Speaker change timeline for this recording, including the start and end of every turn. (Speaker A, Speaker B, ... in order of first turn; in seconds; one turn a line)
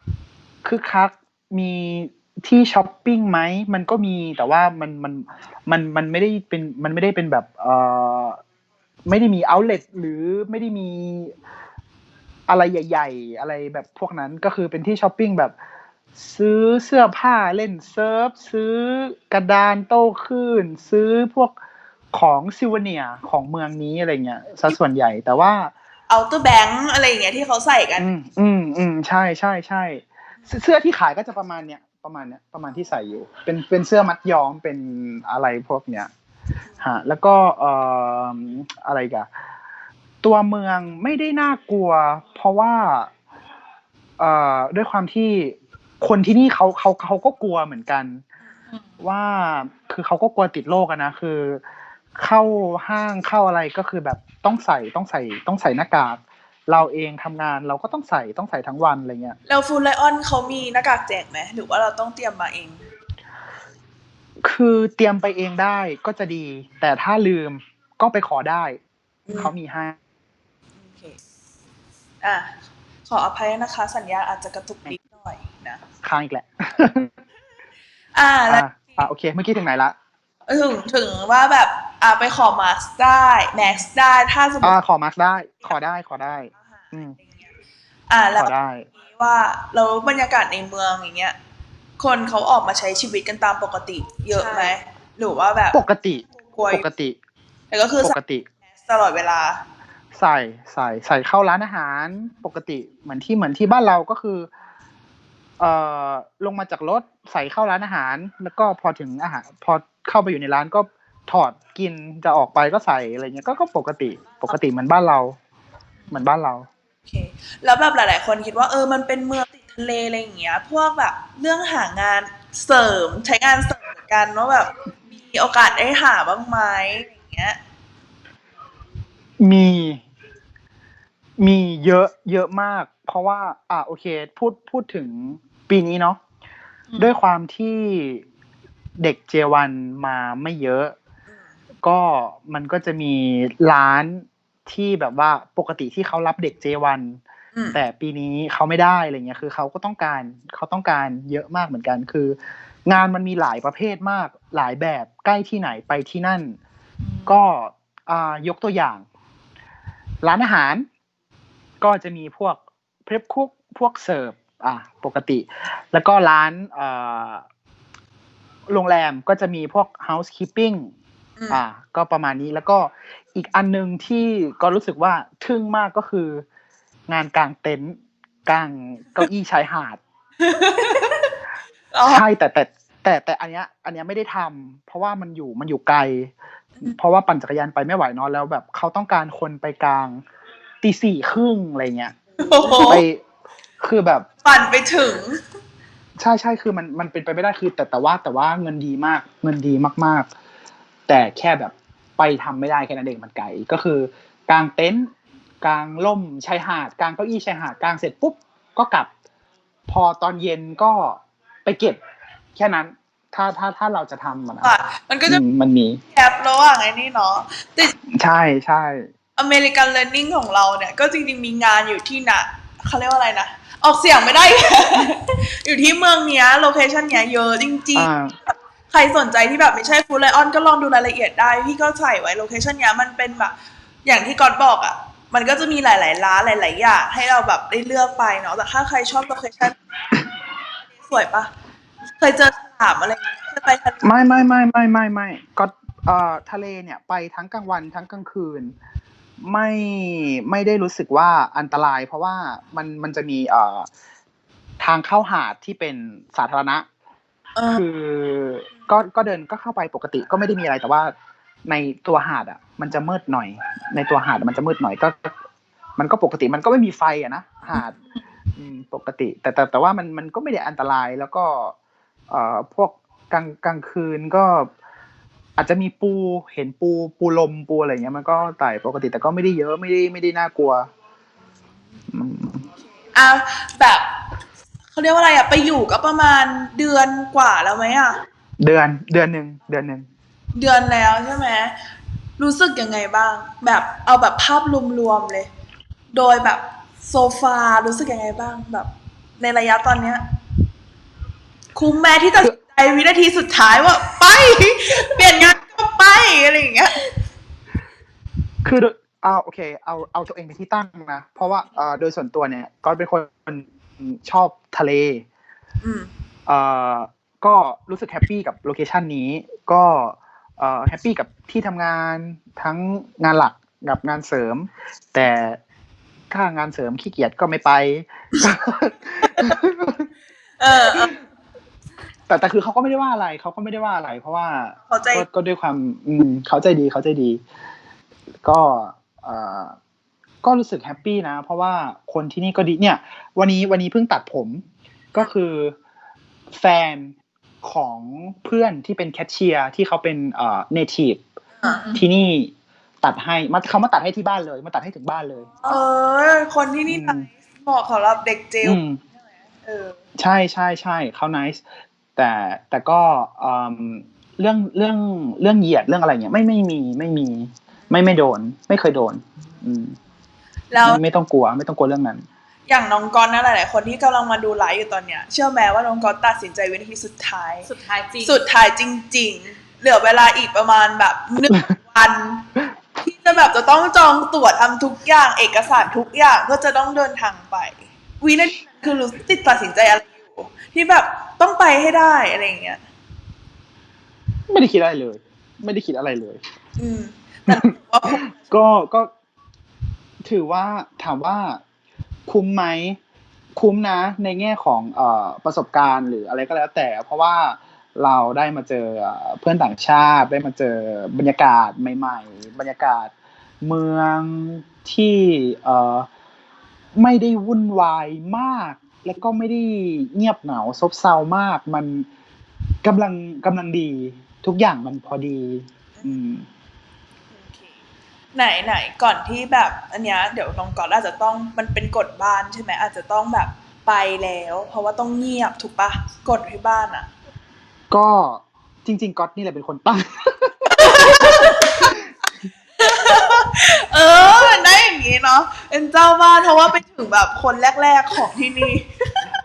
Speaker A: 0.6-8.4
Speaker A: 9.1-11.3
Speaker A: 12.5-15.5
Speaker A: 16.2-21.5
Speaker A: 22.1-25.7
Speaker B: 26.1-28.1
Speaker A: 28.0-36.1
Speaker A: 36.8-39.3
Speaker A: 40.2-43.1
Speaker A: 44.2-48.2
Speaker A: 49.0-51.6
Speaker A: 52.1-59.4
Speaker B: 59.5-62.8
Speaker A: 64.4-68.8
Speaker B: 69.3-69.5
Speaker A: 69.3-70.0
Speaker B: 70.9-71.2
Speaker B: 72.2-72.5
Speaker B: 73.1-75.8
Speaker A: 76.0-77.1
Speaker B: 78.1-79.0
Speaker A: 78.5-80.0
Speaker B: 80.5-84.8
Speaker A: 84.6-87.2
Speaker B: 87.2-87.5
Speaker B: 88.1-88.5
Speaker A: 88.4-88.9
Speaker B: 89.0-91.3
Speaker B: 92.0-95.8
Speaker C: 94.3-94.7
Speaker A: 95.7-97.2
Speaker B: 96.4-96.8
Speaker B: 97.7-98.2
Speaker A: 98.0-98.4
Speaker B: 98.8-99.6
Speaker A: 100.1-104.5
Speaker A: 105.6-115.3
Speaker A: 116.1-116.7
Speaker B: 117.1-127.6
Speaker A: 129.4-130.0
Speaker A: 131.4-136.2
Speaker C: 136.9-137.2
Speaker A: 137.0-138.2
Speaker A: 139.0-140.9
Speaker A: 141.8-147.2
Speaker A: 147.7-156.6
Speaker C: 157.0-157.3
Speaker A: 157.3-159.0
Speaker A: 160.2-160.9
Speaker A: 161.8-167.4
Speaker A: 168.7-170.9
Speaker A: 171.5-176.4
Speaker A: 177.1-180.0
Speaker B: 180.4-181.2
Speaker B: 181.9-182.2
Speaker A: 182.1-186.3
Speaker A: 186.8-190.2
Speaker A: 190.8-192.2
Speaker B: 192.4-193.0
Speaker A: 192.7-193.2
Speaker A: 193.8-194.3
Speaker B: 194.4-195.4
Speaker A: 196.2-200.3
Speaker A: 201.1-205.1
Speaker A: 205.6-209.1
Speaker A: 209.9-212.0
Speaker A: 212.6-214.7
Speaker B: 214.6-215.4
Speaker A: 215.2-216.0
Speaker B: 216.1-217.9
Speaker A: 218.1-219.1
Speaker B: 219.4-228.1
Speaker A: 227.9-228.3
Speaker B: 228.9-233.5
Speaker B: 234.0-239.8
Speaker B: 241.1-241.5
Speaker B: 242.2-244.3
Speaker A: 244.0-248.7
Speaker A: 249.4-253.9
Speaker A: 254.8-256.8
Speaker B: 257.6-257.8
Speaker A: 257.7-261.1
Speaker A: 261.6-265.4
Speaker A: 266.0-267.9
Speaker C: 267.7-268.2
Speaker A: 268.6-271.7
Speaker A: 272.3-274.7
Speaker A: 275.6-280.9
Speaker A: 282.1-282.6
Speaker B: 283.1-284.1
Speaker B: 284.9-288.2
Speaker A: 288.6-290.1
Speaker B: 290.5-291.7
Speaker B: 292.4-295.5
Speaker B: 296.1-300.2
Speaker B: 301.7-307.0
Speaker A: 308.6-315.2
Speaker B: 315.8-316.1
Speaker A: 316.5-325.6
Speaker A: 326.3-330.1
Speaker B: 329.2-329.5
Speaker B: 330.6-331.1
Speaker A: 332.3-337.4
Speaker B: 334.9-335.2
Speaker A: 338.4-339.8
Speaker A: 340.4-344.6
Speaker A: 345.1-345.8
Speaker A: 346.5-351.2
Speaker C: 351.6-352.0
Speaker A: 351.9-355.5
Speaker B: 355.6-358.8
Speaker A: 356.9-357.3
Speaker A: 358.6-359.0
Speaker B: 359.6-360.0
Speaker A: 360.2-361.6
Speaker A: 362.1-369.9
Speaker B: 370.7-371.0
Speaker A: 370.8-372.2
Speaker B: 372.7-377.7
Speaker C: 377.6-378.4
Speaker B: 378.2-382.4
Speaker B: 383.0-392.8
Speaker A: 394.5-396.4
Speaker B: 396.8-398.3
Speaker A: 397.5-399.1
Speaker A: 400.2-401.6
Speaker A: 402.3-403.0
Speaker A: 403.5-416.1
Speaker A: 416.9-422.1
Speaker A: 422.8-426.4
Speaker B: 427.3-427.7
Speaker B: 428.3-437.1
Speaker A: 437.9-442.1
Speaker B: 440.7-441.9
Speaker B: 442.8-449.3